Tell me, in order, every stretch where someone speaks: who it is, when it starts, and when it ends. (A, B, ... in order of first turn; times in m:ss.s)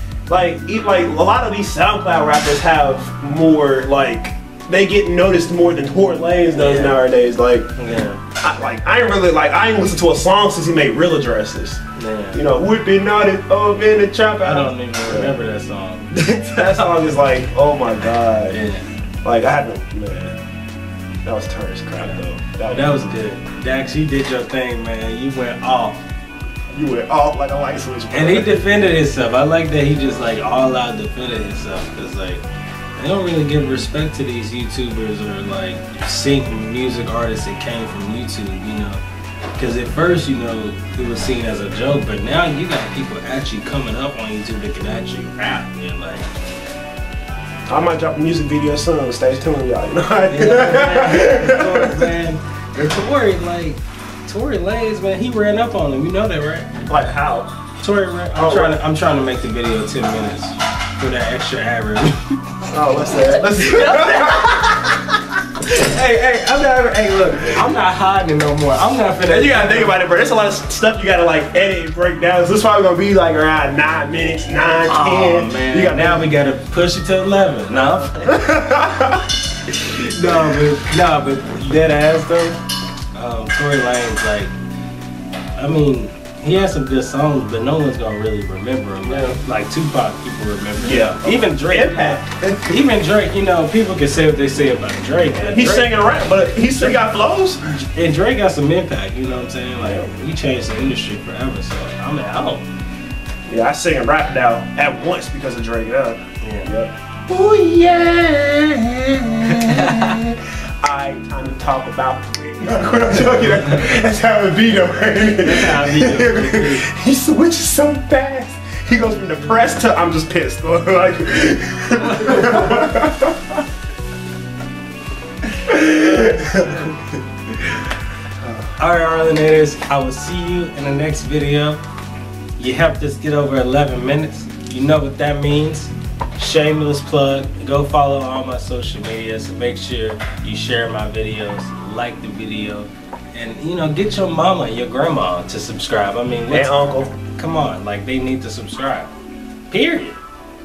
0:00.3-0:07.7 A
0:06.5-0:07.1 B
0:07.8-0:08.2 B
0:08.4-0:11.8 A
0:12.0-0:12.5 B
0:12.3-0:15.4 A
0:14.4-0:16.2 B
0:16.1-0:18.6 A
0:18.5-0:18.8 B
0:19.2-0:20.4 A
0:21.2-0:23.1 A
0:22.0-0:26.0 B
0:26.7-0:28.7 A
0:28.1-0:32.4 B
0:33.0-0:39.0 B
0:39.6-0:46.3 B
0:47.7-0:52.2 A
0:50.3-0:56.7 B
0:56.9-0:57.5 A
0:57.8-1:02.6 B
0:58.4-0:58.8 A
1:02.7-1:04.6 A
1:03.4-1:10.0 B
1:09.3-1:16.3 A
1:14.9-1:18.5 B
1:17.8-1:19.3 A
1:19.7-1:22.6 B
1:23.1-1:24.5 B
1:25.6-1:37.0 B
1:29.0-1:29.4 A
1:30.8-1:32.8 A
1:35.4-1:37.6 A
1:37.9-1:42.7 B
1:39.8-1:40.1 A
1:43.5-2:03.6 A
1:46.4-1:46.7 B
1:49.4-1:50.2 B
1:53.7-1:53.9 B
1:55.4-1:56.9 B
2:02.0-2:02.9 B
2:05.6-2:07.2 A
2:05.9-2:07.0 B
2:08.4-2:08.7 A
2:08.8-2:11.8 B
2:12.6-2:29.1 B
2:26.5-2:27.1 A
2:29.7-2:30.2 B